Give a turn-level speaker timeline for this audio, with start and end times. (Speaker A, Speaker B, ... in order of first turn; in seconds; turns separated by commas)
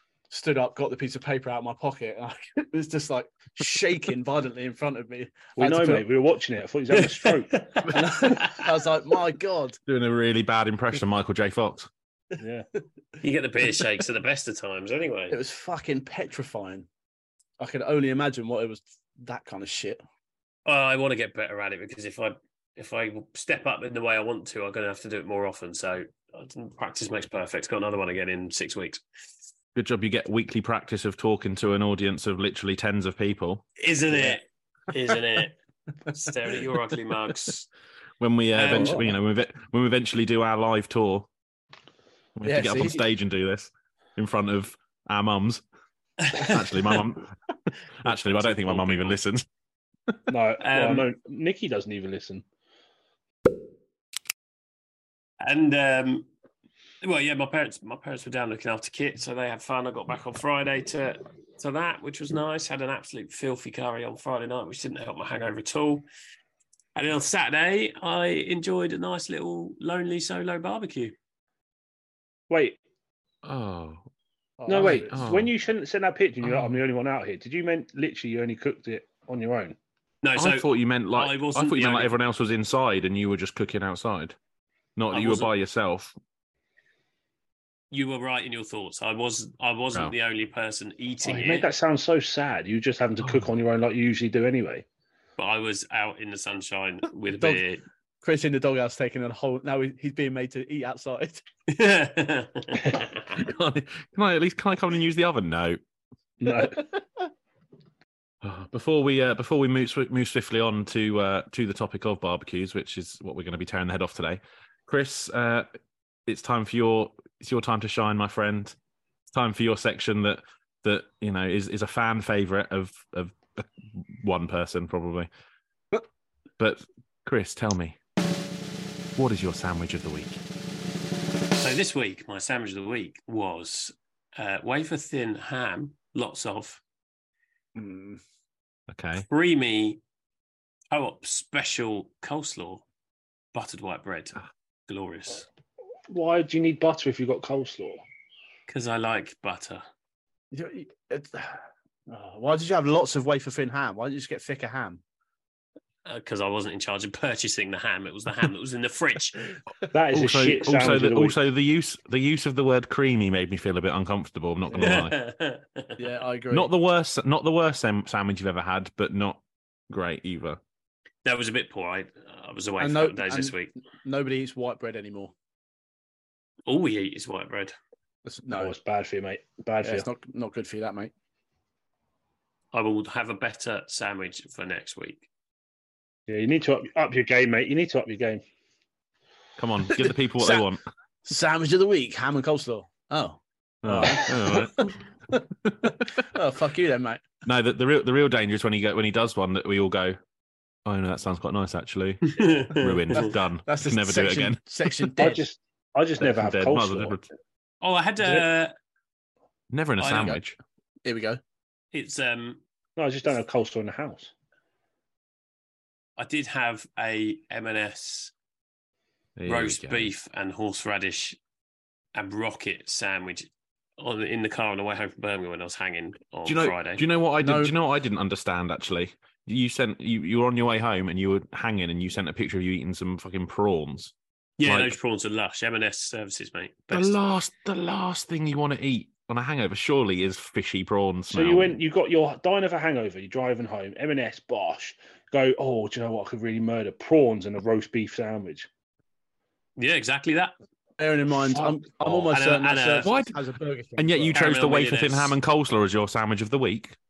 Speaker A: 0.3-6.0, Speaker B: 5.6-7.8, Speaker C: 7.1-8.3, Speaker A: 7.9-9.8, Speaker D: 9.8-11.9, Speaker B: 12.4-12.7, Speaker C: 13.2-15.3, Speaker A: 15.3-16.9, Speaker A: 17.6-20.0, Speaker C: 20.6-29.0, Speaker D: 29.7-33.6, Speaker C: 33.8-35.5, Speaker C: 36.1-37.7, Speaker D: 38.2-41.3, Speaker C: 38.5-39.0, Speaker A: 38.7-39.0, Speaker D: 42.4-45.6, Speaker A: 42.4-43.0, Speaker C: 46.2-46.5, Speaker D: 46.3-47.4, Speaker D: 48.0-49.4, Speaker C: 48.0-49.2, Speaker B: 50.3-52.4, Speaker C: 50.6-51.1, Speaker C: 55.4-56.3, Speaker C: 57.0-66.0, Speaker C: 67.0-71.1, Speaker B: 72.5-72.8, Speaker D: 73.4-74.0, Speaker A: 74.6-75.3, Speaker B: 74.7-79.8, Speaker D: 74.7-75.5, Speaker D: 76.4-76.7, Speaker C: 80.2-82.1, Speaker D: 80.3-84.3, Speaker D: 85.0-86.1, Speaker C: 85.1-85.5, Speaker C: 87.9-91.7, Speaker B: 91.2-94.8, Speaker D: 93.2-93.5, Speaker C: 95.4-97.8, Speaker A: 98.2-101.4, Speaker C: 101.7-103.0, Speaker D: 103.3-105.8, Speaker B: 106.4-106.8, Speaker D: 108.4-115.7, Speaker D: 116.2-118.8, Speaker D: 119.3-125.3, Speaker D: 126.6-128.0, Speaker D: 129.2-130.4, Speaker C: 131.5-136.8, Speaker A: 137.8-138.2, Speaker D: 138.9-139.3, Speaker C: 139.3-140.0, Speaker C: 140.9-142.8, Speaker C: 143.5-144.4, Speaker C: 144.9-145.5, Speaker B: 146.1-148.0, Speaker C: 148.7-149.8, Speaker A: 150.5-155.0, Speaker C: 156.1-159.5, Speaker B: 159.9-161.4, Speaker D: 160.1-165.1, Speaker C: 164.8-166.0, Speaker A: 166.0-166.7, Speaker D: 166.5-170.6, Speaker C: 171.2-173.7, Speaker A: 172.8-175.3, Speaker C: 176.7-177.7, Speaker A: 178.2-178.7, Speaker B: 178.5-180.1, Speaker A: 179.8-181.1, Speaker C: 182.7-185.2, Speaker B: 186.3-188.4, Speaker D: 189.6-190.8, Speaker A: 190.0-190.7, Speaker A: 191.2-197.2, Speaker D: 193.8-194.9, Speaker D: 197.4-200.2, Speaker D: 200.8-205.1, Speaker C: 202.3-203.2, Speaker A: 203.1-205.4, Speaker B: 205.2-207.2, Speaker D: 206.2-207.3, Speaker C: 207.8-208.7, Speaker D: 209.7-210.6, Speaker C: 210.0-210.4, Speaker A: 211.0-211.4, Speaker C: 211.9-212.6, Speaker B: 213.0-214.3, Speaker C: 216.2-218.3, Speaker D: 219.4-220.1, Speaker C: 219.4-221.4, Speaker C: 222.1-223.5, Speaker C: 224.0-227.0, Speaker D: 226.4-235.0, Speaker A: 227.4-227.7, Speaker C: 234.6-237.2, Speaker D: 236.9-241.8, Speaker B: 241.3-248.7, Speaker C: 249.8-250.5, Speaker A: 251.0-254.4, Speaker C: 252.0-253.1, Speaker D: 253.0-253.4, Speaker D: 254.0-256.9, Speaker C: 254.3-255.3